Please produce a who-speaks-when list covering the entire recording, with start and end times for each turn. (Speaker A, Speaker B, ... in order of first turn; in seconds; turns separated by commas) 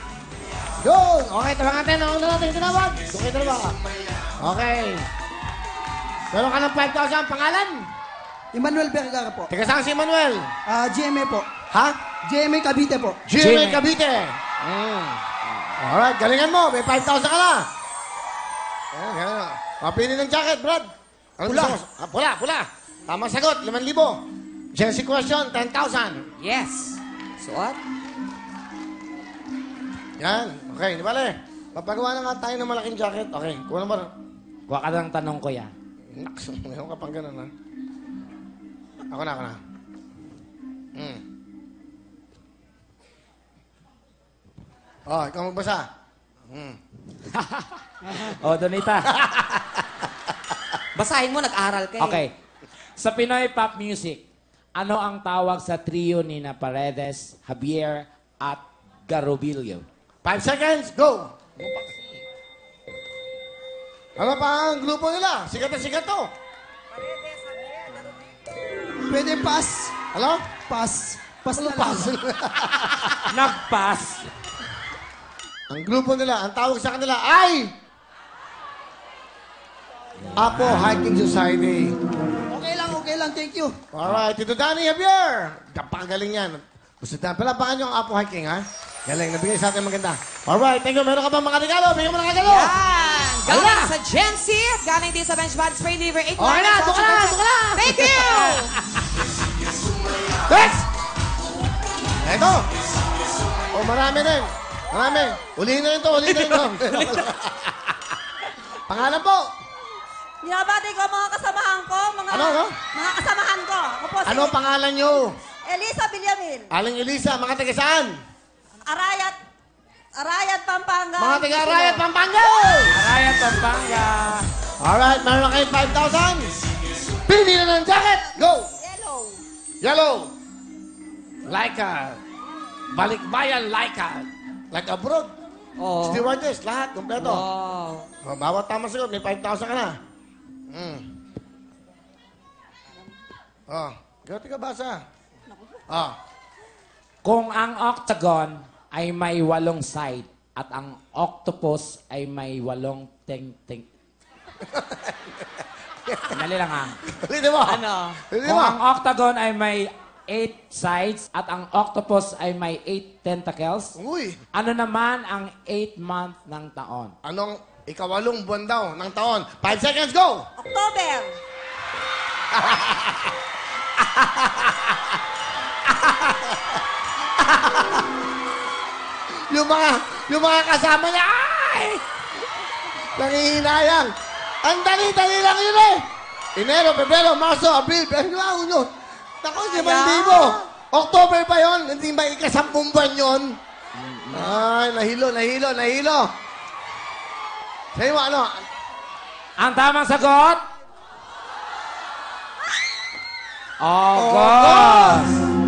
Speaker A: 0.8-3.8, Speaker A: 4.4-5.1, Speaker A: 6.3-7.9, Speaker B: 8.5-9.5, Speaker A: 9.5-10.5, Speaker B: 10.7-11.5, Speaker A: 11.7-12.0, Speaker B: 12.2-13.2, Speaker A: 13.2-15.2, Speaker C: 13.3-13.8, Speaker A: 15.8-17.7, Speaker A: 18.9-24.2, Speaker B: 21.4-21.8, Speaker A: 24.7-26.2, Speaker D: 26.4-27.8, Speaker A: 30.2-34.1, Speaker C: 34.7-35.7, Speaker A: 36.1-37.5, Speaker A: 39.1-39.6, Speaker A: 40.9-41.2, Speaker A: 45.1-45.9, Speaker A: 46.5-46.8, Speaker C: 47.3-49.1, Speaker A: 49.2-49.8, Speaker D: 50.9-52.2, Speaker C: 52.0-52.3, Speaker C: 53.0-54.2, Speaker C: 54.7-59.8, Speaker A: 60.2-61.9, Speaker A: 64.2-66.3, Speaker E: 66.9-68.5, Speaker B: 69.0-70.0, Speaker A: 70.1-70.4, Speaker B: 70.7-72.2, Speaker A: 71.5-73.3, Speaker C: 73.2-74.3, Speaker A: 75.7-77.7, Speaker A: 80.3-82.0, Speaker B: 82.5-83.8, Speaker A: 83.9-92.7, Speaker D: 92.4-98.8, Speaker A: 93.5-93.9, Speaker A: 96.4-98.7, Speaker A: 100.5-100.8, Speaker A: 102.2-102.7, Speaker A: 103.7-107.7, Speaker A: 108.9-109.5, Speaker E: 110.4-114.5, Speaker A: 112.3-112.7, Speaker A: 114.2-115.3, Speaker E: 115.6-116.7, Speaker A: 116.7-118.2, Speaker E: 118.8-119.4, Speaker E: 120.2-122.7, Speaker A: 121.2-122.9, Speaker C: 122.9-124.5, Speaker A: 124.8-126.5, Speaker A: 127.2-128.7, Speaker E: 128.8-129.4, Speaker A: 129.8-130.3, Speaker A: 131.4-132.2, Speaker A: 132.9-135.3, Speaker D: 135.8-136.2, Speaker A: 136.0-137.4, Speaker D: 137.2-138.1, Speaker A: 138.2-140.0, Speaker A: 140.7-141.1, Speaker A: 143.7-145.0, Speaker A: 145.9-146.2, Speaker C: 147.2-153.9, Speaker A: 154.6-155.3, Speaker A: 156.0-156.4, Speaker C: 156.3-157.0, Speaker A: 157.1-158.8, Speaker D: 157.6-158.2, Speaker C: 158.4-163.9, Speaker A: 164.0-164.4, Speaker C: 164.5-167.1, Speaker A: 167.2-170.5, Speaker E: 170.6-171.3, Speaker A: 172.5-173.3, Speaker A: 174.0-174.9, Speaker A: 175.9-176.6, Speaker A: 177.4-178.0, Speaker A: 179.3-182.0, Speaker A: 183.1-184.1, Speaker A: 184.6-188.9, Speaker A: 189.4-193.6, Speaker D: 189.6-190.6, Speaker C: 193.9-194.5, Speaker A: 194.3-196.3, Speaker A: 197.9-198.6, Speaker C: 199.6-200.6, Speaker C: 203.8-205.4, Speaker A: 204.1-205.3